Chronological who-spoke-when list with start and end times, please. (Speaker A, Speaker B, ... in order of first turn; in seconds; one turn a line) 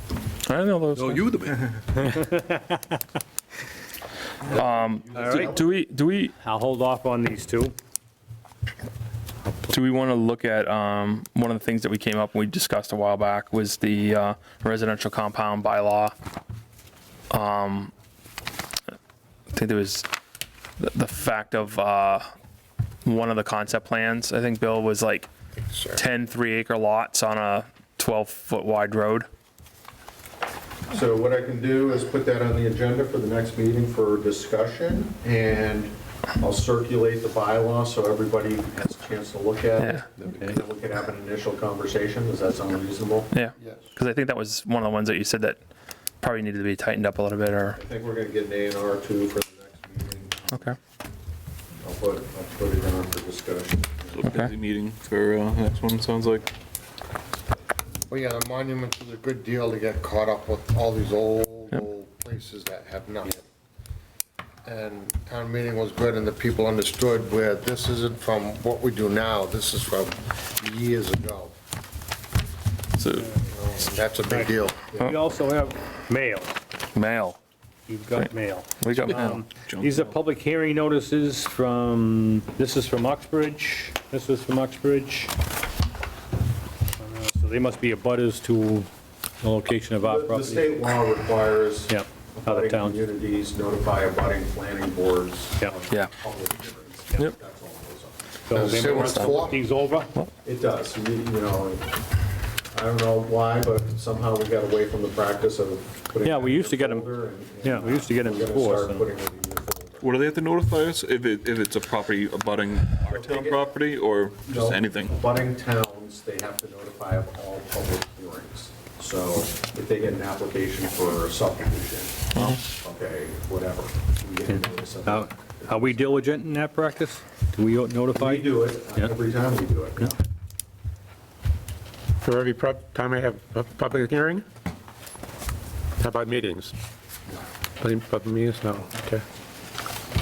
Speaker A: 0.4-1.7
Speaker B: 1.0-1.4
Speaker B: 1.9-2.8
Speaker A: 4.5-6.3
Speaker C: 4.5-5.7
Speaker B: 5.1-5.6
Speaker B: 6.4-7.7
Speaker A: 9.7-16.1
Speaker A: 17.3-17.9
Speaker A: 19.5-20.1
Speaker A: 20.8-22.2
Speaker A: 23.0-25.3
Speaker D: 25.6-26.0
Speaker A: 25.9-29.3
Speaker C: 30.9-43.3
Speaker A: 39.8-40.0
Speaker A: 43.3-45.6
Speaker D: 43.6-43.9
Speaker A: 46.2-47.8
Speaker C: 47.8-50.8
Speaker C: 51.8-54.4
Speaker E: 54.1-56.5
Speaker A: 54.2-54.5
Speaker D: 58.1-63.4
Speaker D: 64.6-71.5
Speaker A: 73.0-73.3
Speaker B: 73.2-73.4
Speaker D: 73.5-75.0
Speaker B: 74.3-76.5
Speaker A: 76.9-77.4
Speaker B: 77.9-85.3
Speaker A: 78.8-79.4
Speaker E: 79.5-80.0
Speaker B: 87.0-88.9
Speaker B: 89.4-90.7
Speaker C: 90.0-98.2
Speaker B: 91.9-93.0
Speaker B: 98.5-100.1
Speaker D: 98.5-99.5
Speaker A: 99.0-99.4
Speaker C: 100.4-102.0
Speaker C: 102.7-110.1
Speaker B: 106.2-107.1
Speaker B: 107.6-109.0
Speaker E: 110.0-115.2
Speaker C: 113.0-113.7
Speaker C: 114.4-126.2
Speaker B: 124.5-129.1
Speaker C: 128.1-130.2
Speaker F: 132.2-134.4
Speaker F: 136.0-136.7
Speaker F: 137.8-139.2